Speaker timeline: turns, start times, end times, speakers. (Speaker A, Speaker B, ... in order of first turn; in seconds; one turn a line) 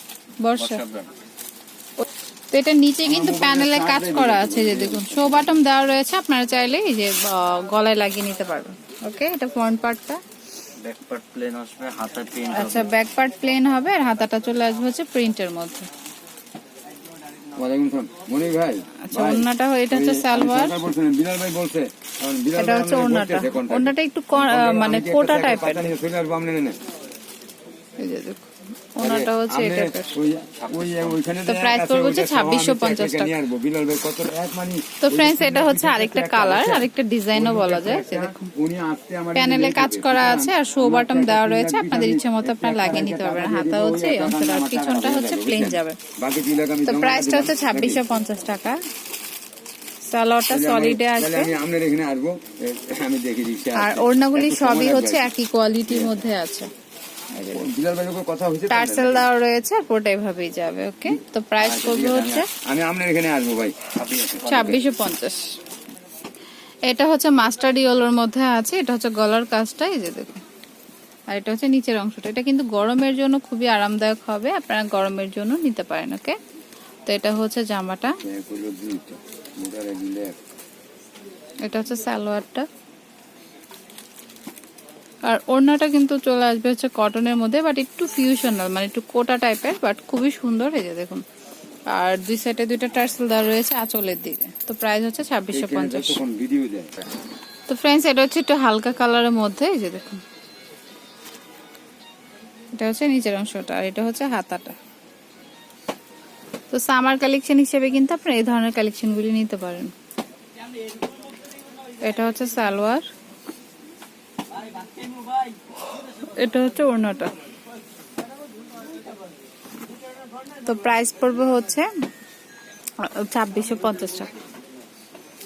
Speaker A: 0.4-0.8
Speaker B: 0.6-1.1
Speaker A: 2.5-10.2
Speaker C: 3.0-5.6
Speaker B: 10.8-12.9
Speaker A: 12.5-15.9
Speaker C: 17.5-26.8
Speaker A: 19.0-20.9
Speaker A: 22.5-25.9
Speaker A: 28.0-30.1
Speaker C: 29.0-48.0
Speaker B: 30.6-31.1
Speaker A: 31.4-33.4
Speaker A: 35.0-38.5
Speaker A: 39.3-46.0
Speaker A: 46.9-48.8
Speaker A: 50.1-51.5
Speaker C: 50.5-55.3
Speaker A: 53.8-56.7
Speaker C: 55.9-56.2
Speaker A: 57.4-57.7
Speaker C: 57.5-59.3
Speaker A: 58.7-62.5
Speaker C: 61.1-64.6
Speaker B: 64.0-64.7
Speaker A: 64.4-65.5
Speaker A: 66.9-70.4
Speaker A: 71.3-76.4
Speaker A: 77.1-78.2
Speaker C: 78.2-80.4
Speaker A: 81.6-82.7
Speaker A: 85.2-91.2
Speaker A: 91.9-96.2
Speaker C: 95.5-97.0
Speaker A: 97.7-100.2
Speaker A: 102.8-104.8
Speaker A: 106.7-109.9
Speaker A: 112.0-113.1
Speaker A: 116.2-117.3
Speaker A: 120.6-121.9
Speaker A: 123.0-124.3